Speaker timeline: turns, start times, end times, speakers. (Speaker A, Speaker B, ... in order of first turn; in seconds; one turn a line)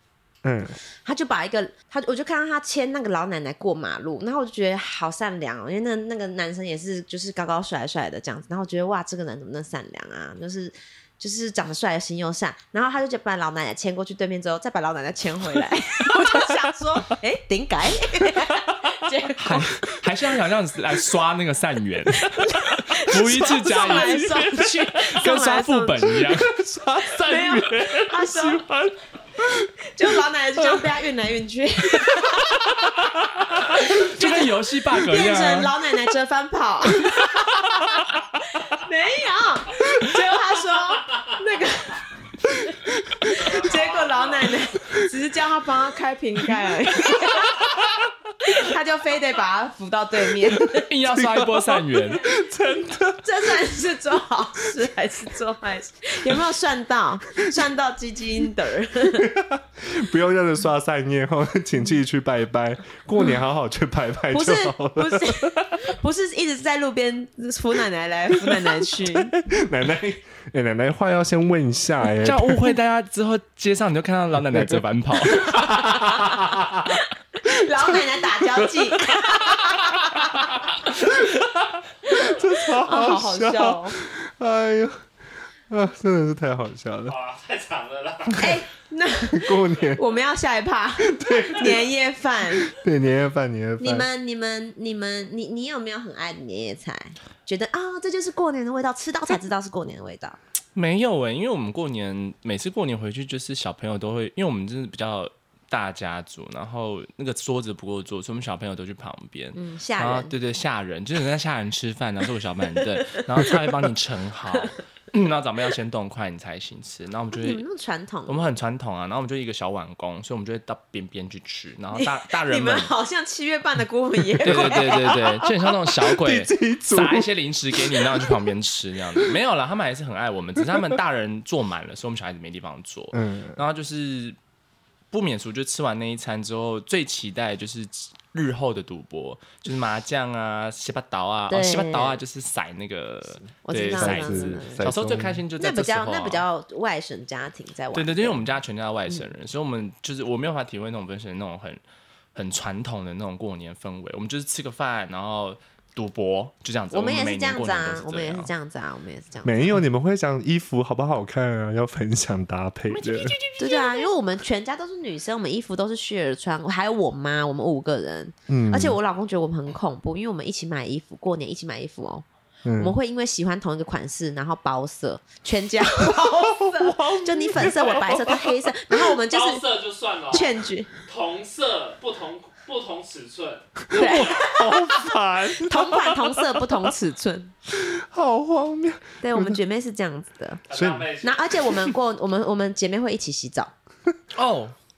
Speaker A: 0.4-0.8
Speaker B: 1.0-19.8
Speaker C: 19.4-26.5
Speaker B: 22.2-26.3
Speaker A: 23.4-24.2
Speaker A: 26.2-29.7
Speaker B: 27.1-28.6
Speaker B: 29.8-32.6
Speaker A: 32.2-33.0
Speaker B: 33.6-42.1
Speaker C: 33.8-35.8
Speaker A: 42.6-43.3
Speaker B: 43.2-47.7
Speaker D: 43.3-44.8
Speaker B: 48.4-50.9
Speaker C: 50.6-52.3
Speaker A: 51.0-53.7
Speaker B: 53.2-59.3
Speaker A: 59.2-65.9
Speaker B: 64.3-69.4
Speaker A: 68.6-72.8
Speaker C: 72.2-75.9
Speaker A: 74.5-77.0
Speaker B: 77.0-80.5
Speaker A: 82.1-85.1
Speaker B: 82.1-84.0
Speaker A: 85.7-87.2
Speaker D: 87.1-88.5
Speaker B: 88.4-92.7
Speaker A: 89.3-90.0
Speaker A: 91.0-91.9
Speaker A: 92.5-94.1
Speaker B: 93.8-100.4
Speaker C: 100.8-117.6
Speaker B: 109.5-110.3
Speaker B: 117.3-118.5
Speaker C: 118.3-122.9
Speaker B: 121.9-125.1
Speaker A: 124.4-128.5
Speaker C: 124.4-134.4
Speaker A: 133.1-133.6
Speaker C: 135.1-146.4
Speaker B: 141.5-142.2
Speaker B: 143.7-144.9
Speaker A: 143.9-145.4
Speaker B: 145.6-148.4
Speaker C: 147.9-151.8
Speaker C: 152.3-158.5
Speaker B: 156.9-159.8
Speaker A: 159.4-163.4
Speaker C: 162.9-164.1
Speaker B: 163.6-172.2
Speaker A: 168.5-169.0
Speaker A: 172.7-173.0
Speaker B: 172.8-179.7
Speaker A: 176.2-179.0
Speaker D: 179.3-184.4
Speaker B: 180.3-180.9
Speaker A: 183.9-186.8
Speaker B: 183.9-184.9
Speaker B: 185.6-187.5
Speaker A: 187.7-189.6
Speaker B: 189.2-190.6
Speaker D: 190.7-191.4
Speaker A: 190.7-191.1
Speaker B: 191.2-193.7
Speaker C: 194.3-194.8